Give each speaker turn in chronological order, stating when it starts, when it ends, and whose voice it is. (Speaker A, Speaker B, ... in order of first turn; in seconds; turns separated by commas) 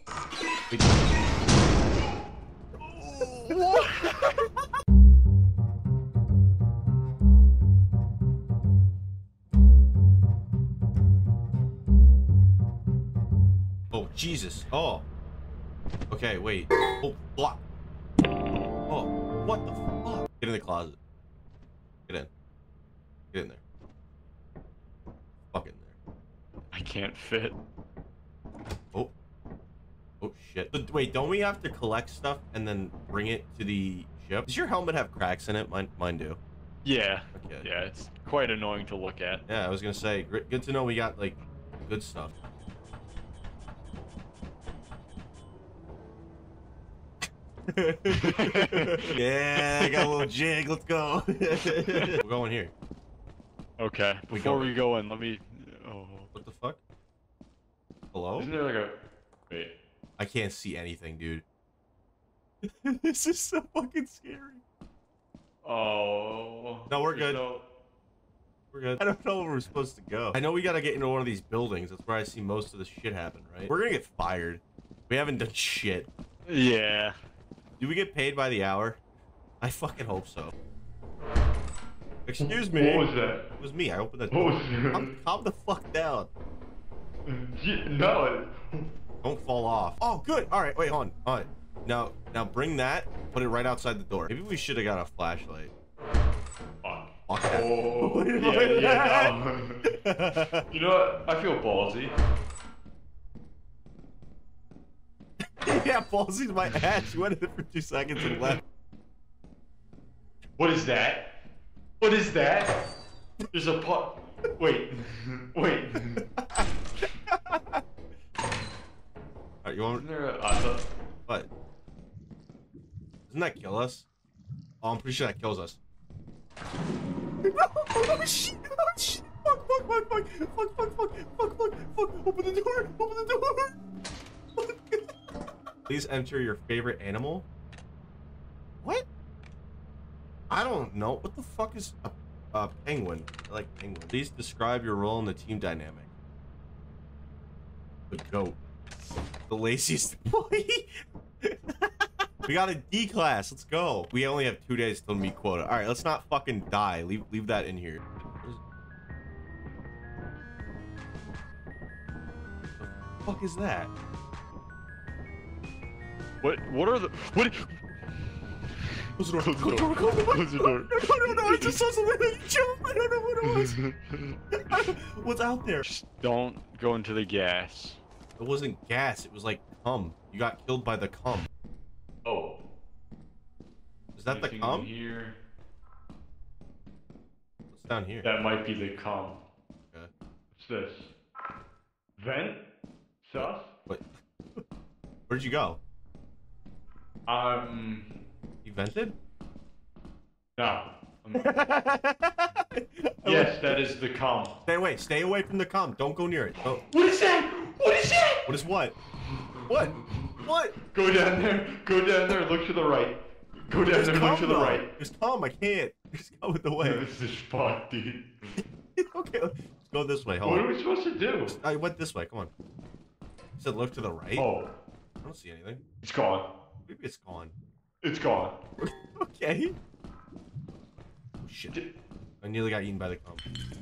Speaker A: 0.7-1.0, Speaker B: 2.8-4.4, Speaker A: 13.9-15.0, Speaker A: 16.1-17.6, Speaker A: 18.9-21.0, Speaker A: 23.3-23.6, Speaker A: 25.5-25.9, Speaker B: 26.7-27.6, Speaker A: 30.2-36.4, Speaker B: 36.8-39.4, Speaker A: 37.3-37.7, Speaker A: 39.5-42.3, Speaker A: 47.7-52.7, Speaker B: 48.2-50.3, Speaker B: 51.6-52.1, Speaker B: 53.8-56.3, Speaker A: 54.3-54.7, Speaker A: 56.3-56.8, Speaker A: 58.1-58.5, Speaker B: 58.4-58.9, Speaker A: 60.2-61.4, Speaker A: 62.6-64.6, Speaker B: 65.6-67.6, Speaker A: 66.9-67.4, Speaker A: 68.7-76.1, Speaker B: 76.5-77.2, Speaker A: 77.8-79.0, Speaker A: 79.6-80.5, Speaker A: 82.2-86.3, Speaker B: 82.4-83.4, Speaker B: 84.3-85.1, Speaker B: 87.2-88.8, Speaker A: 89.2-95.7, Speaker B: 96.8-99.8, Speaker A: 97.3-100.6, Speaker B: 100.7-102.2, Speaker A: 105.6-108.6, Speaker B: 106.6-107.1, Speaker B: 110.6-111.2, Speaker B: 112.0-112.8, Speaker B: 113.5-116.2, Speaker A: 116.4-116.6, Speaker A: 117.3-117.8, Speaker A: 119.6-120.0, Speaker B: 119.9-120.9, Speaker A: 123.3-124.1, Speaker A: 124.8-125.8, Speaker A: 127.4-133.8, Speaker A: 134.6-135.0, Speaker A: 135.9-137.5, Speaker A: 140.5-146.1, Speaker A: 148.1-148.6, Speaker A: 149.5-158.6, Speaker A: 162.8-163.9, Speaker B: 166.4-167.9, Speaker A: 169.2-173.8, Speaker B: 169.3-171.8, Speaker B: 173.4-174.9, Speaker A: 174.5-175.9, Speaker B: 175.8-178.0, Speaker A: 178.4-181.5, Speaker B: 182.2-182.6, Speaker A: 184.2-184.9, Speaker B: 184.3-185.4, Speaker A: 187.7-188.3, Speaker B: 188.2-189.3, Speaker B: 190.5-191.1, Speaker B: 192.2-192.6, Speaker B: 193.2-193.7, Speaker A: 193.3-194.6, Speaker A: 195.3-195.8, Speaker B: 197.3-198.1, Speaker A: 198.6-199.2, Speaker B: 200.6-201.5, Speaker A: 201.4-203.8, Speaker B: 203.2-204.5, Speaker A: 204.7-206.8, Speaker B: 206.9-208.4, Speaker A: 208.5-208.9, Speaker B: 209.6-210.3, Speaker A: 209.7-210.8, Speaker B: 210.9-214.8, Speaker A: 213.9-217.0, Speaker B: 216.8-218.6, Speaker A: 219.0-220.7, Speaker B: 220.4-221.5, Speaker A: 221.5-222.5, Speaker A: 223.6-224.5, Speaker B: 224.3-224.7, Speaker A: 225.2-225.8, Speaker B: 226.0-226.5, Speaker A: 226.9-227.5, Speaker B: 228.0-228.6, Speaker A: 228.8-229.7, Speaker A: 231.4-231.8, Speaker A: 232.4-233.4